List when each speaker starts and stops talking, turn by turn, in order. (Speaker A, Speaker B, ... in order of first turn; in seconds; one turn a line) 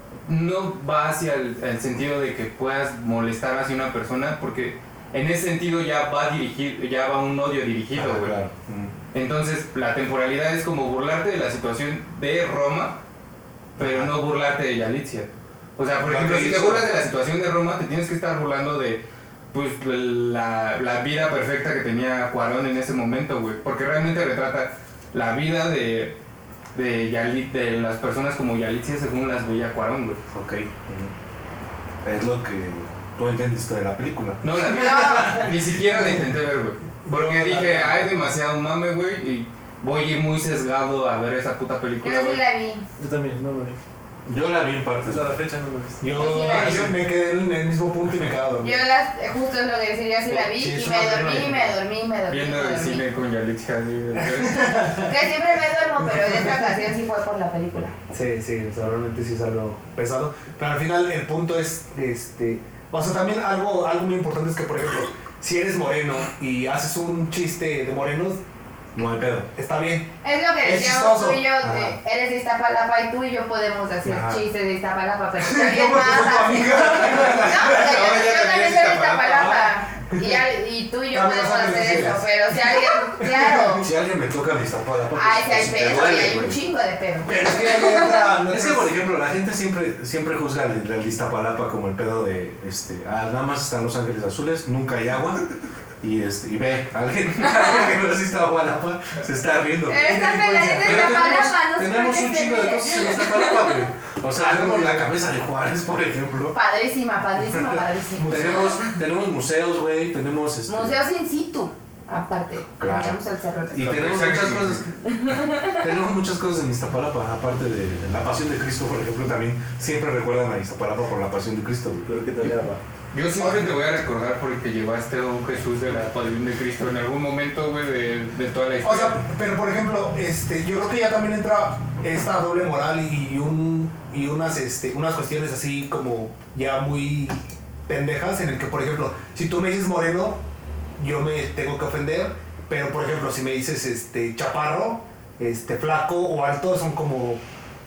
Speaker A: 0.3-8.4
Speaker B: 7.9-8.9
Speaker A: 9.1-13.0
Speaker B: 13.8-14.1
Speaker A: 13.8-26.1
Speaker B: 16.0-16.9
Speaker A: 26.7-30.2
Speaker B: 30.3-31.1
Speaker B: 32.0-34.4
Speaker A: 34.4-42.4
Speaker C: 34.6-35.5
Speaker D: 37.0-38.2
Speaker C: 42.0-42.9
Speaker E: 43.0-43.8
Speaker B: 44.3-45.4
Speaker E: 45.0-46.2
Speaker D: 46.0-48.8
Speaker C: 46.1-46.9
Speaker B: 46.6-46.9
Speaker C: 48.6-53.0
Speaker B: 50.8-51.6
Speaker A: 52.3-54.9
Speaker D: 54.1-55.1
Speaker C: 55.0-58.0
Speaker D: 58.1-68.4
Speaker B: 69.0-69.5
Speaker D: 69.6-71.4
Speaker C: 70.2-83.9
Speaker B: 71.6-72.0
Speaker B: 74.0-74.5
Speaker D: 75.4-78.0
Speaker A: 77.3-79.7
Speaker D: 80.1-80.4
Speaker D: 81.1-83.9
Speaker B: 83.8-86.6
Speaker C: 85.2-88.2
Speaker D: 87.2-89.0
Speaker B: 88.5-95.5
Speaker B: 96.0-106.6
Speaker C: 99.9-103.8
Speaker D: 100.1-101.4
Speaker D: 104.3-105.2
Speaker C: 106.5-108.7
Speaker D: 108.2-108.7
Speaker B: 108.3-111.0
Speaker C: 110.7-113.9
Speaker B: 112.8-113.2
Speaker B: 113.7-115.0
Speaker A: 113.8-114.9
Speaker C: 115.1-115.8
Speaker B: 115.6-122.2
Speaker E: 122.1-122.8
Speaker A: 123.1-129.2
Speaker D: 123.4-123.8
Speaker D: 128.8-140.4
Speaker D: 141.0-147.4